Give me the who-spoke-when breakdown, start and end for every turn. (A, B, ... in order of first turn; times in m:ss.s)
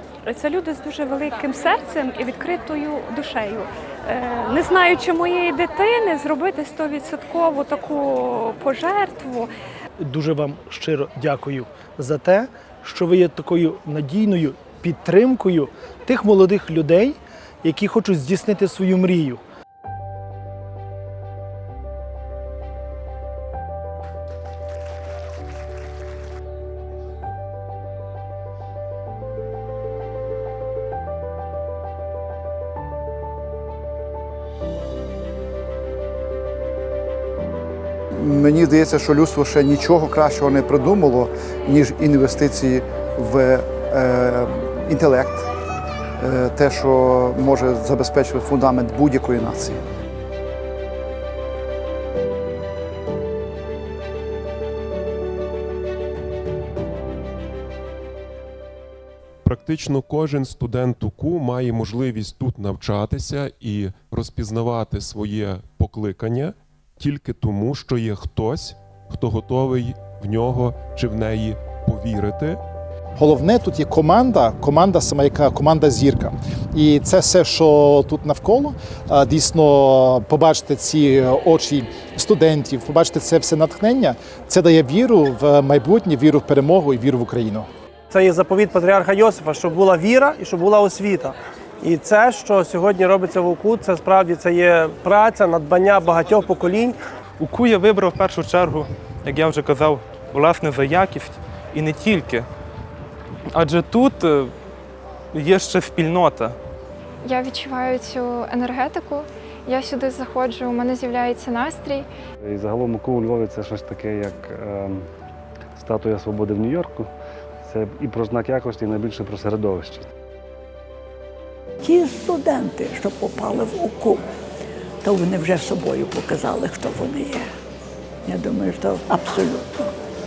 0:00.2-0:09.5 A
0:10.0-0:19.4 B
0:38.2-0:45.5 C
0:46.2-0:49.8 C
0:59.4-1:12.6 D
1:13.2-1:27.7 E
1:28.1-1:37.0 F
1:37.4-1:42.4 G
1:43.5-1:44.5 G
1:45.3-1:46.6 G
1:47.2-1:52.0 H
1:52.6-1:54.6 I
1:55.9-1:57.0 I
1:58.1-1:59.8 I
2:01.8-2:04.3 J
2:05.0-2:07.5 J
2:08.2-2:09.9 J